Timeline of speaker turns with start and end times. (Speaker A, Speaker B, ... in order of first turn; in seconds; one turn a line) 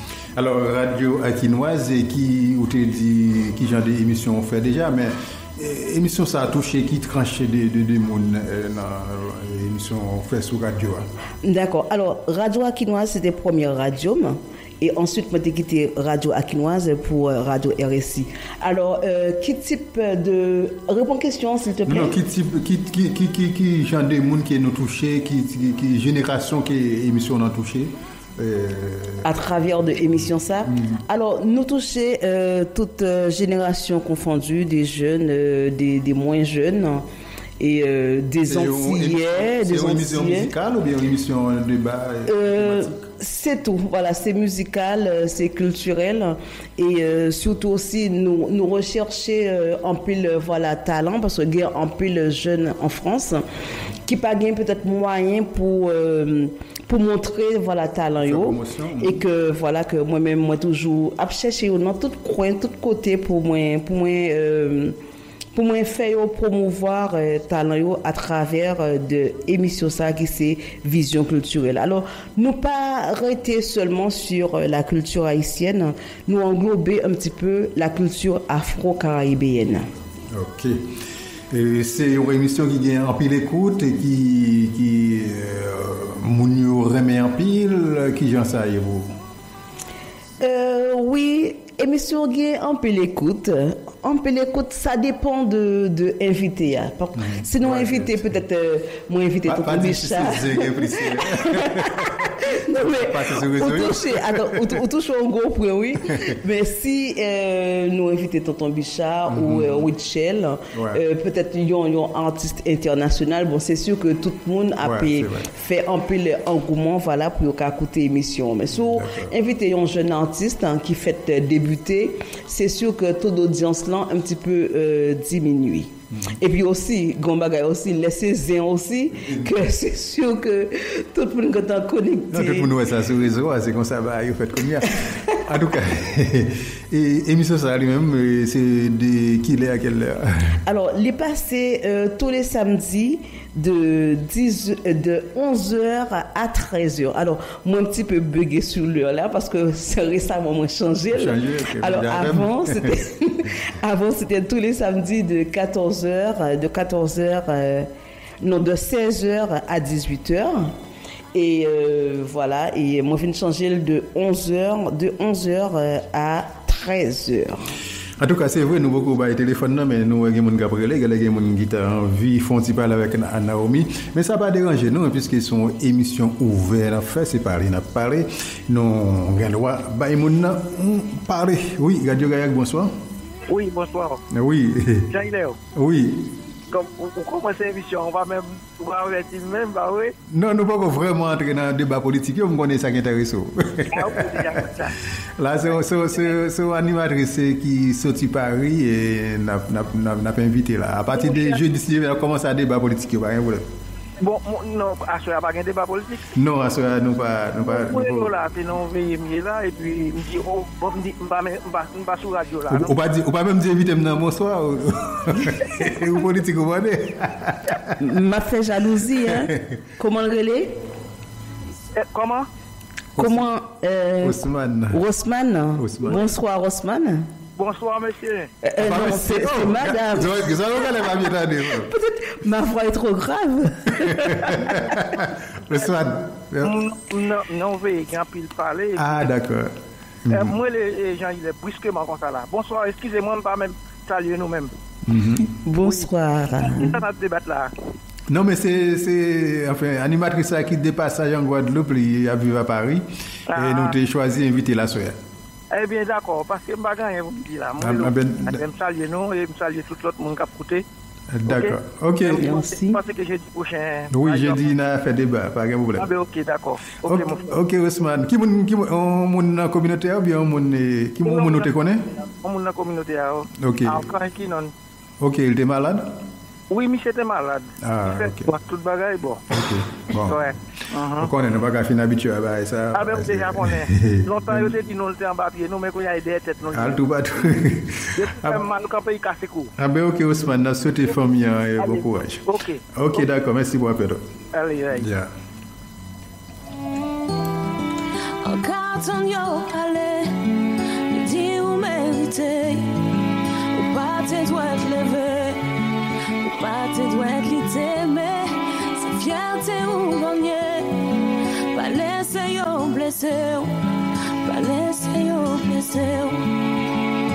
Speaker A: 0.3-11.1
Speaker B: 11.4-22.1
Speaker A: 21.9-29.2
Speaker B: 29.2-37.0
Speaker A: 30.6-31.0
Speaker B: 37.6-40.5
Speaker A: 38.4-43.0
Speaker B: 42.3-53.4
Speaker B: 54.0-65.0
Speaker A: 58.2-59.2
Speaker B: 65.5-79.9
Speaker A: 80.3-80.9
Speaker A: 81.5-89.2
Speaker B: 90.4-132.7
Speaker A: 97.2-98.2
Speaker A: 99.5-104.8
Speaker A: 109.3-109.9
Speaker A: 110.7-111.0
Speaker A: 114.8-115.5
Speaker A: 118.7-119.3
Speaker A: 129.2-129.6
Speaker A: 132.3-140.6
Speaker B: 140.7-157.9
Speaker A: 151.1-153.0
Speaker B: 158.4-160.7
Speaker B: 161.3-167.7
Speaker A: 168.2-182.9
Speaker C: 183.5-184.2
Speaker A: 184.3-185.1
Speaker C: 185.1-185.6
Speaker A: 185.7-186.3
Speaker C: 186.7-190.1
Speaker A: 190.3-194.6
Speaker C: 193.9-195.0
Speaker A: 195.4-203.6
Speaker C: 201.1-201.6
Speaker C: 204.2-206.3
Speaker A: 206.3-208.3
Speaker C: 207.7-212.9
Speaker A: 212.7-218.0
Speaker B: 218.0-220.7
Speaker A: 219.2-219.7
Speaker C: 221.9-222.5
Speaker A: 223.2-223.4
Speaker B: 223.2-227.3
Speaker A: 224.2-225.0
Speaker A: 225.8-226.2
Speaker C: 227.6-228.5
Speaker B: 228.6-230.5
Speaker A: 228.8-231.9
Speaker B: 231.8-234.8
Speaker A: 233.9-236.8
Speaker C: 236.6-239.3
Speaker A: 238.9-239.7
Speaker A: 240.2-240.6
Speaker C: 240.3-244.7
Speaker A: 245.1-245.5
Speaker B: 245.5-246.9
Speaker C: 245.8-247.7
Speaker A: 248.3-255.2
Speaker C: 253.5-253.9
Speaker C: 255.7-260.8
Speaker A: 257.8-258.6
Speaker A: 261.3-262.5
Speaker C: 261.5-264.6
Speaker B: 262.4-263.0
Speaker A: 264.1-266.1
Speaker C: 266.0-267.6
Speaker A: 267.0-272.0
Speaker C: 271.2-274.7
Speaker A: 273.6-274.1
Speaker A: 275.2-276.1
Speaker C: 276.7-279.4
Speaker A: 277.8-278.5
Speaker A: 279.5-280.4
Speaker C: 280.2-281.3
Speaker A: 281.1-284.7
Speaker C: 282.9-287.0
Speaker A: 286.7-288.6
Speaker C: 288.1-289.7
Speaker A: 289.8-294.2
Speaker C: 291.8-293.2
Speaker C: 294.5-295.1
Speaker A: 294.9-295.3
Speaker D: 298.4-300.5
Speaker D: 301.1-303.0
Speaker D: 303.7-305.6
Speaker D: 306.4-311.1
Speaker D: 311.7-313.7
Speaker D: 314.4-316.4